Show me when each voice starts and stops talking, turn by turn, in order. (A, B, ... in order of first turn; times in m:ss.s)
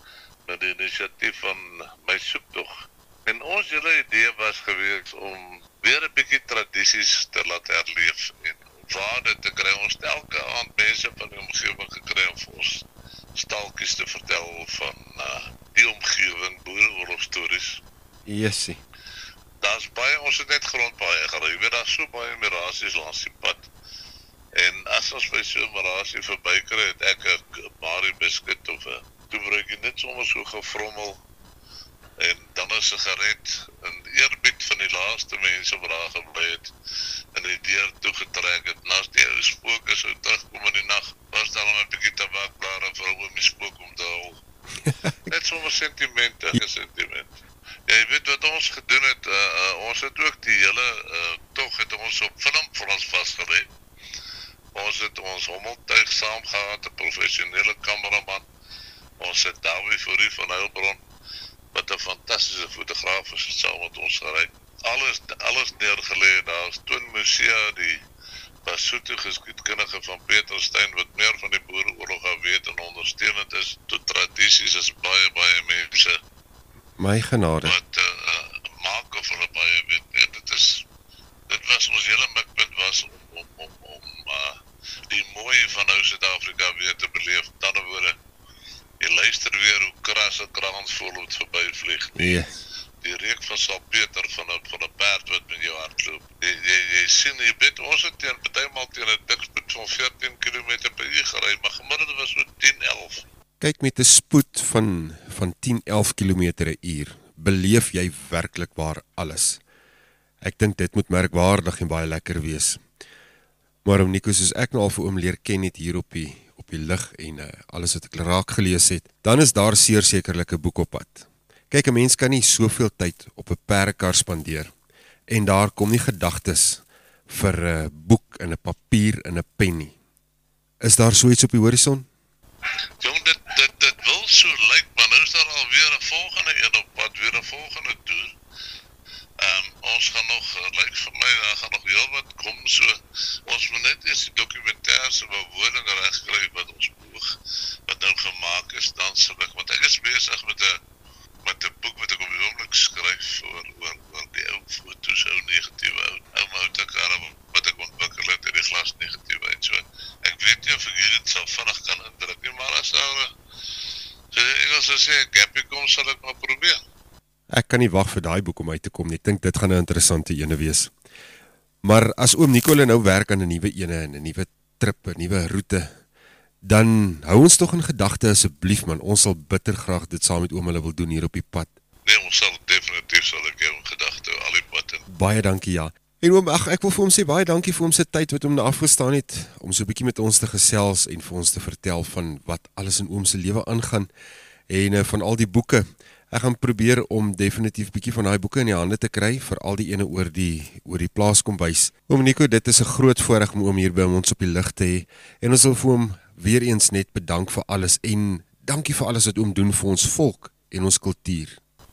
0:00.5-0:17.8 A
0:18.3-0:18.8 B
0:19.6-0:23.7 A
0:24.6-0:31.2 A
0:32.2-0:36.7 A
0:37.3-0:44.4 A
0:44.9-0:45.1 B
0:45.3-0:53.7 A
0:54.7-0:58.5 A
0:59.2-1:01.0 A
1:01.7-1:08.0 A
1:08.6-1:16.2 A
1:17.0-1:17.8 B
1:17.6-1:20.8 A
1:21.5-1:24.6 A
1:25.1-1:28.2 A
1:29.0-1:32.4 A
1:32.2-1:32.6 B
1:33.0-1:43.2 A
1:43.6-1:49.6 B
1:50.4-1:52.8 B
1:53.8-2:04.7 B
2:05.3-2:10.0 B
2:10.8-2:12.1 B
2:13.0-2:18.4 A
2:19.4-2:23.0 A
2:23.5-2:27.4 A
2:27.9-2:30.8 A
2:31.4-2:43.3 A
2:44.3-2:46.8 A
2:47.5-2:50.9 B
2:51.8-2:55.9 B
2:56.6-3:01.7 B
3:02.1-3:05.0 A
3:05.1-3:14.1 B
3:14.7-3:31.6 B